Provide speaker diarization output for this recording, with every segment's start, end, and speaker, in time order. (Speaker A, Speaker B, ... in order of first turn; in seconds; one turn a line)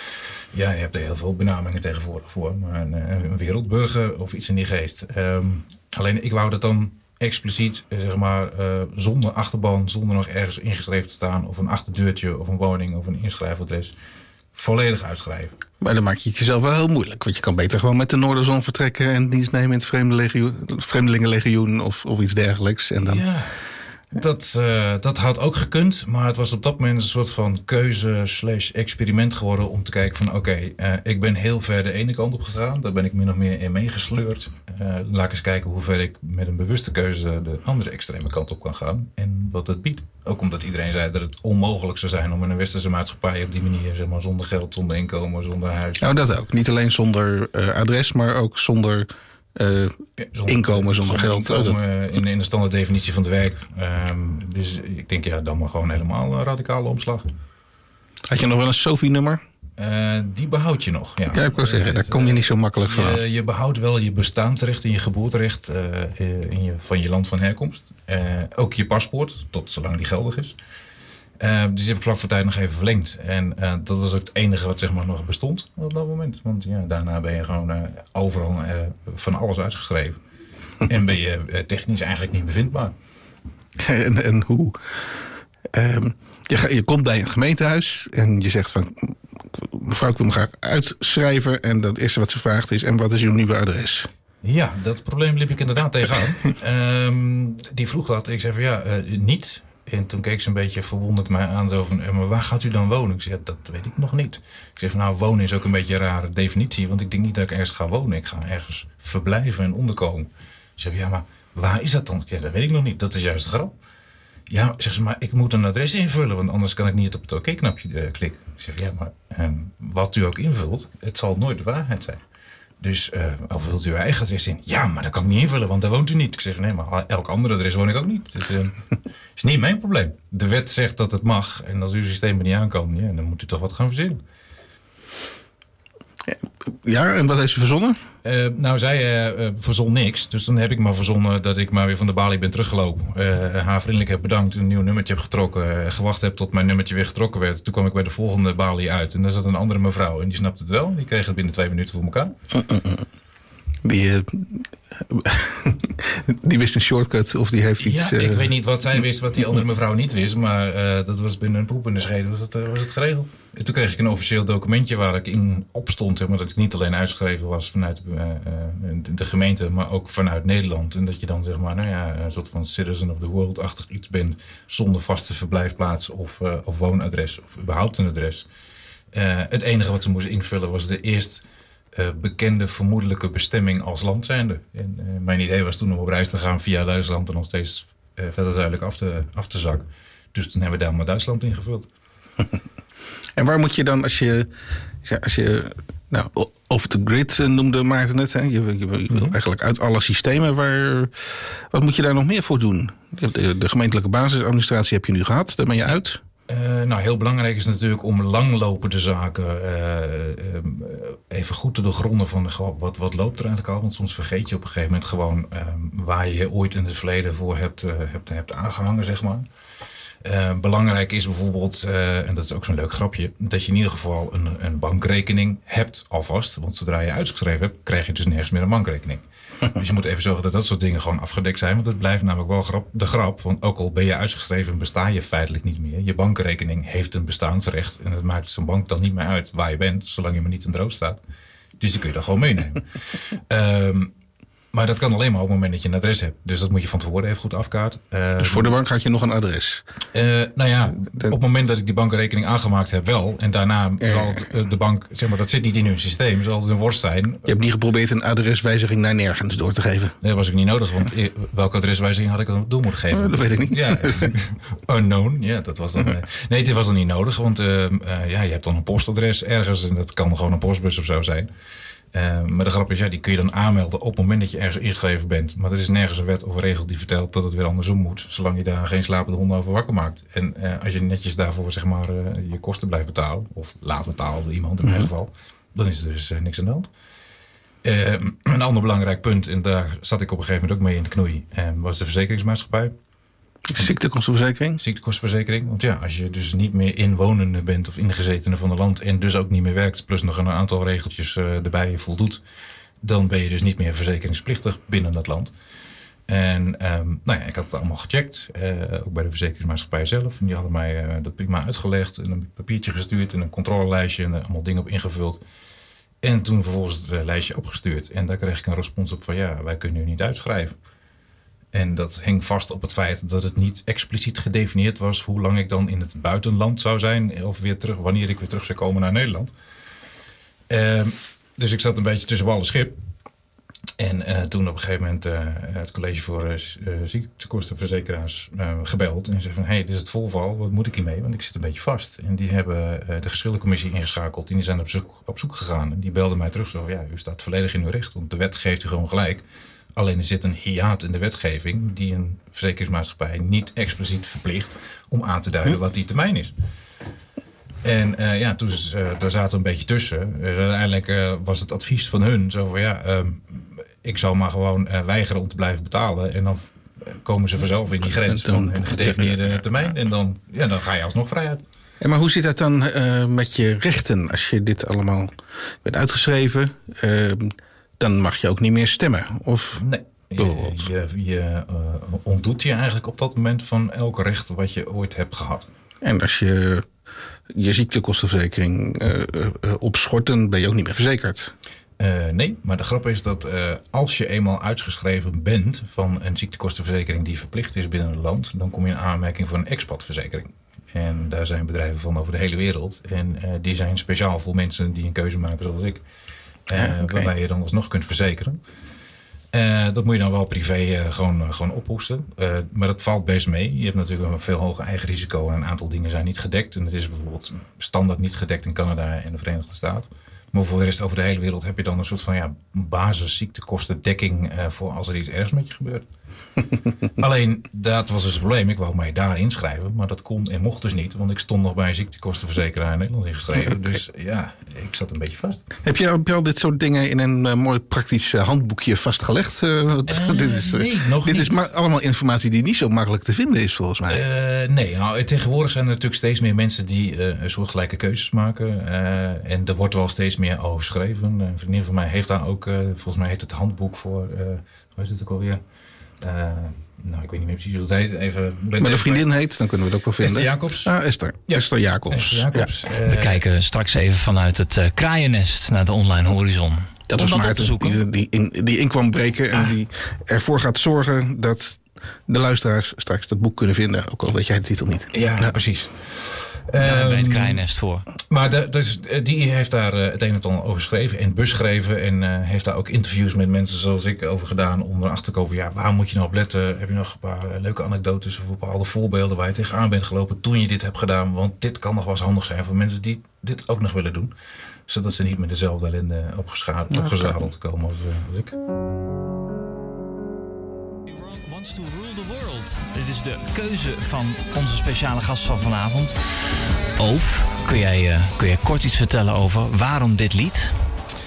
Speaker A: 0.5-13.9
Speaker A: 14.5-15.5
Speaker B: 15.8-23.2
Speaker A: 23.0-23.5
Speaker A: 24.1-46.1
Speaker B: 46.0-51.8
Speaker A: 50.2-57.3
Speaker B: 58.3-59.4
Speaker A: 59.8-70.5
Speaker B: 61.3-63.2
Speaker A: 71.4-80.2
Speaker A: 80.8-82.9
Speaker B: 83.8-85.1
Speaker B: 85.7-94.1
Speaker A: 94.4-113.7
Speaker A: 114.5-122.2
Speaker A: 122.8-128.8
Speaker A: 129.4-134.2
Speaker B: 136.2-138.0
Speaker A: 138.2-152.3
Speaker B: 152.5-153.1
Speaker B: 153.8-158.5
Speaker A: 157.8-178.4
Speaker A: 179.1-181.4
Speaker A: 181.9-191.9
Speaker B: 193.3-194.5
Speaker B: 195.0-206.2
Speaker A: 206.5-219.4
Speaker A: 220.2-241.2
Speaker A: 241.8-244.1
Speaker A: 244.7-248.7
Speaker B: 248.4-249.8
Speaker A: 250.1-257.5
Speaker B: 254.0-254.3
Speaker B: 257.4-260.1
Speaker A: 260.2-271.5
Speaker B: 263.1-264.3
Speaker A: 272.1-286.9
Speaker A: 287.8-292.9
Speaker B: 293.7-294.8
Speaker A: 294.8-302.4
Speaker A: 303.0-305.5
Speaker A: 306.3-315.4
Speaker A: 316.2-320.7
Speaker A: 321.7-329.5
Speaker A: 330.7-333.0
Speaker A: 334.0-349.4
Speaker A: 349.9-356.5
Speaker A: 357.8-371.6
Speaker B: 368.1-369.6
Speaker B: 372.0-379.8
Speaker A: 379.8-385.7
Speaker B: 380.4-380.9
Speaker B: 386.0-386.9
Speaker B: 387.5-391.5
Speaker A: 392.0-406.0
Speaker A: 406.7-408.6
Speaker B: 406.7-407.3
Speaker A: 409.5-426.1
Speaker A: 427.2-435.6
Speaker B: 435.8-444.2
Speaker A: 440.1-441.7
Speaker A: 444.1-455.6
Speaker A: 456.2-459.3
Speaker B: 458.8-462.7
Speaker A: 460.2-460.9
Speaker A: 461.5-463.4
Speaker C: 463.1-468.0
Speaker B: 467.1-475.5
Speaker A: 475.1-477.6
Speaker C: 476.8-478.1
Speaker A: 478.3-494.3
Speaker A: 494.9-498.6
Speaker B: 496.9-497.3
Speaker C: 501.1-506.1
Speaker C: 507.0-510.7